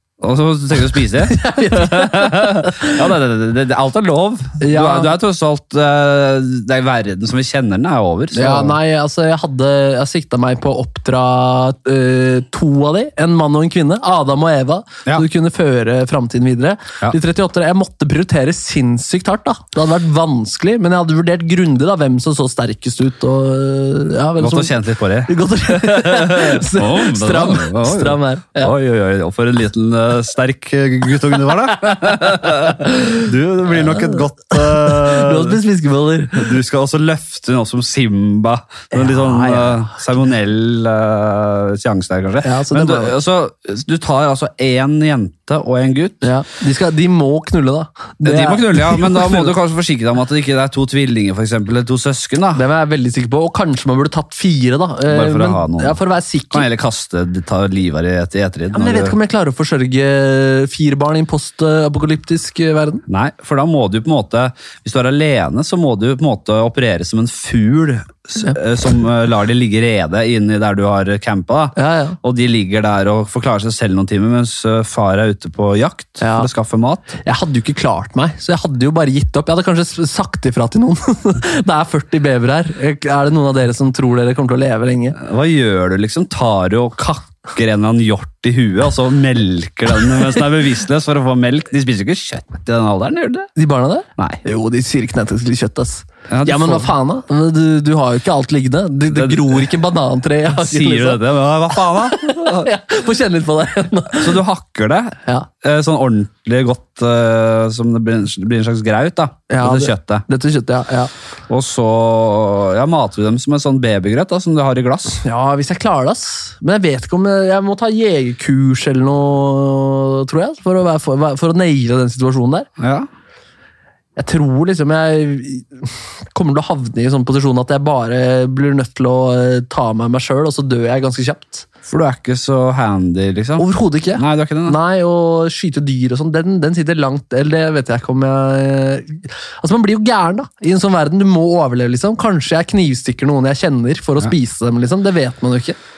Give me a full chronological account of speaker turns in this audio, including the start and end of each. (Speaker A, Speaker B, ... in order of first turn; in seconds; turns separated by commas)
Speaker A: 0.2-8.8, Speaker B: 1.2-3.0, Speaker B: 4.6-5.1, Speaker B: 8.3-24.7, Speaker A: 24.4-35.6, Speaker B: 25.2-28.7, Speaker B: 34.0-36.5, Speaker A: 36.3-46.3, Speaker B: 38.9-40.0, Speaker B: 42.4-43.1, Speaker B: 46.2-49.5, Speaker A: 48.2-52.6, Speaker B: 52.5-56.6, Speaker A: 55.0-56.0, Speaker A: 56.5-59.1, Speaker B: 58.7-63.0, Speaker A: 63.1-77.1, Speaker B: 71.8-72.2, Speaker B: 76.2-76.5, Speaker B: 77.2-85.2, Speaker A: 85.2-93.5, Speaker B: 93.5-101.2, Speaker A: 96.3-96.9, Speaker A: 99.1-99.7, Speaker A: 100.5-102.7, Speaker B: 101.7-104.4, Speaker A: 104.1-110.2, Speaker B: 109.5-111.1, Speaker A: 111.5-115.2, Speaker B: 115.2-122.7, Speaker A: 122.8-123.1, Speaker B: 124.2-131.7, Speaker A: 131.8-134.8, Speaker B: 133.6-145.8